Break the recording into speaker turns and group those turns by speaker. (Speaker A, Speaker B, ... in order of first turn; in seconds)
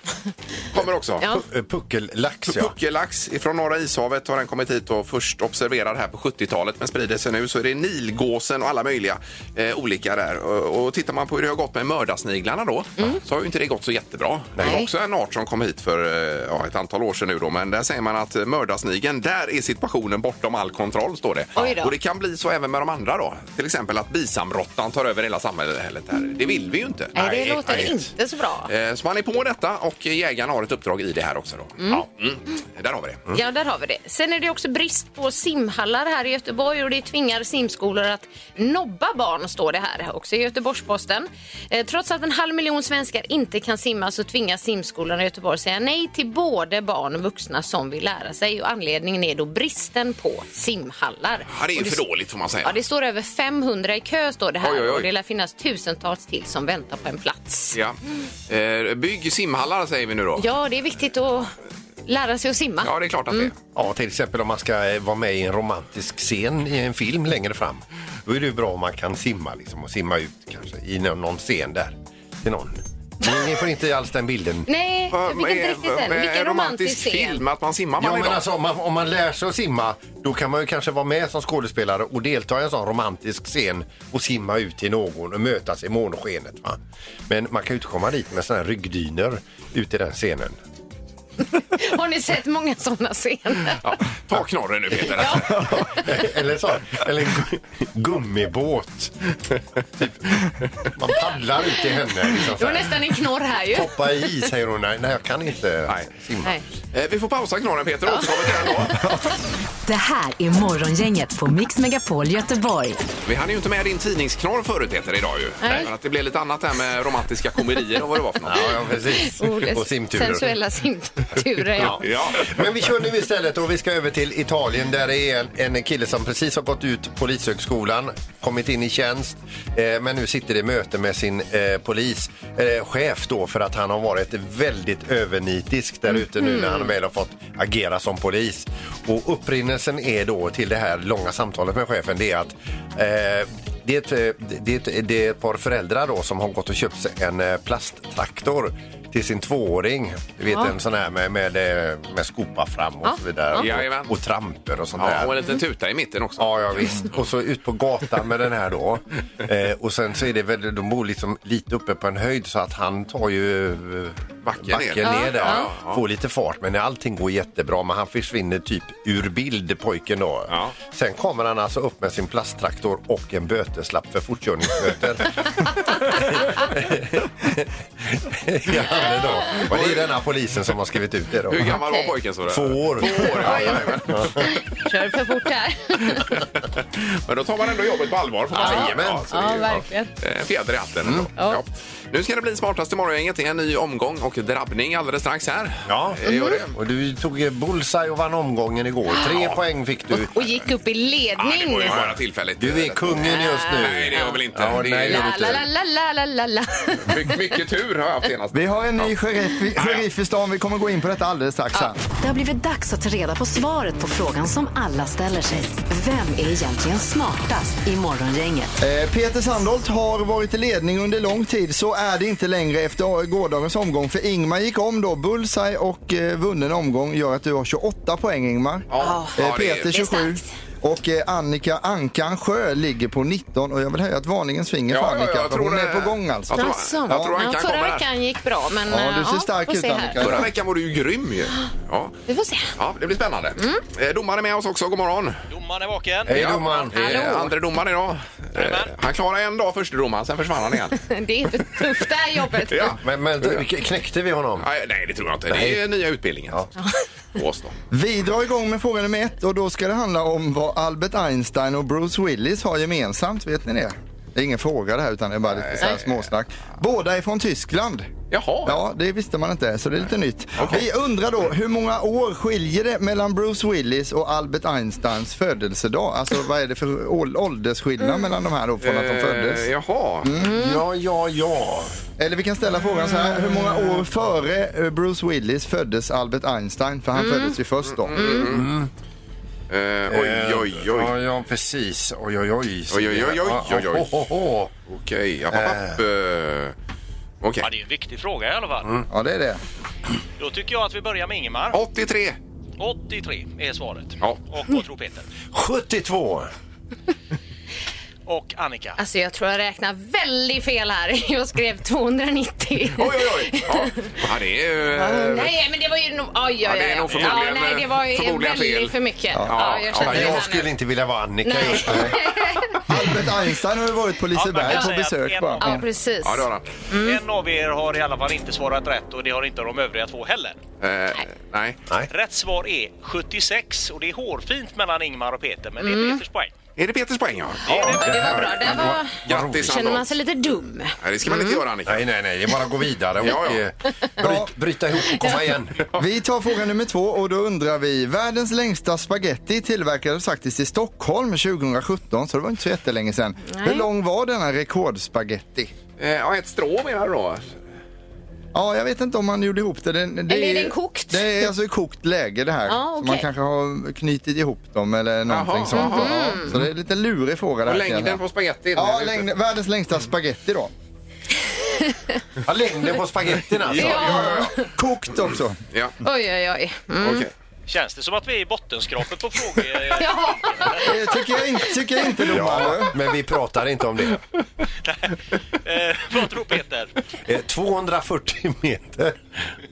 Speaker A: 0.7-1.3, 2.5-27.1, 28.7-33.3, 51.5-52.8, 54.6-55.1, 57.7-60.5, 62.8-63.6, 75.1-78.4, 93.8-95.6, 106.9-109.0, 113.2-118.7, 121.8-122.7, 153.6-154.2, 155.0-157.2, 164.4-166.0, 179.6-180.1, 181.5-184.3, 186.8-189.6, 190.2-196.7, 201.4-205.6, 207.1-209.1, 209.8-210.1, 228.9-229.9, 234.9-238.1, 240.2-242.2, 242.8-245.4, 246.3-251.0, 252.7-253.6, 254.6-256.6, 257.4-257.8, 265.6-266.1, 268.3-268.8, 270.6-270.9, 278.8-280.3, 287.9-288.7, 289.7-291.1, 292.9-294.2, 294.9-296.8, 297.4-297.7, 301.7-302.4, 313.0-315.5, 316.6-320.4, 326.2-326.7, 330.8-331.8, 336.8-340.1, 341.0-342.1, 343.2-343.6, 356.0-357.6, 365.3-366.3, 367.6-369.3, 373.6-374.5, 377.0-377.3
Speaker B: 1.2-2.8, 14.6-14.8, 27.1-28.1, 63.8-74.7, 78.0-90.6, 95.3-99.1, 100.0-103.0, 103.7-106.5, 118.5-120.5, 121.8-155.4, 156.4-181.8, 182.5-184.5, 188.5-189.8, 195.9-200.3, 201.9-205.7, 246.3-247.0, 253.0-254.7, 255.5-255.8, 280.4-282.0, 288.4-288.9, 290.1-294.7, 295.5-296.0, 305.5-306.5, 319.9-322.3, 337.6-340.0, 341.9-345.9, 372.4-374.3, 382.3-384.2, 387.2-389.3
Speaker C: 14.6-14.9, 21.6-21.9, 27.1-28.7, 33.3-52.0, 52.6-57.8, 60.4-61.5, 62.1-63.5, 74.7-77.4, 91.5-93.8, 95.1-95.8, 102.6-104.0, 108.1-109.1, 115.6-115.9, 119.1-122.1, 136.1-136.9, 153.0-153.7, 165.0-165.7, 181.7-182.1, 183.0-186.3, 188.5-190.1, 196.3-196.6, 200.1-202.0, 203.2-204.4, 205.0-207.6, 229.0-230.5, 236.5-240.5, 242.3-242.7, 243.6-243.8, 246.9-247.5, 250.9-253.0, 280.4-280.8, 287.2-287.6, 288.1-288.5, 309.0-314.1, 314.9-320.7, 321.4-322.8, 325.6-327.2, 335.8-336.2, 337.7-341.6, 345.1-345.4, 353.5-353.9, 360.3-361.5, 362.7-363.3, 365.7-366.6, 371.6-372.1, 373.8-374.7, 376.0-377.3, 380.0-381.2
Speaker D: 109.9-113.0, 212.2-218.8
Speaker E: 208.5-212.0, 218.8-228.9, 229.4-237.3, 238.9-240.5, 257.9-268.1, 268.6-279.7, 280.2-280.5, 282.2-288.2, 299.1-299.6, 322.9-325.9, 344.2-344.5, 346.0-355.7, 358.5-368.2, 368.8-370.7, 373.8-375.6, 380.8-382.9
Speaker F: 245.5-246.8, 248.6-248.9, 297.6-298.9, 300.4-301.8, 302.8-305.3, 308.3-309.0, 317.1-317.4, 324.3-325.8, 327.0-330.6, 332.1-336.5, 377.7-380.9, 384.9-386.9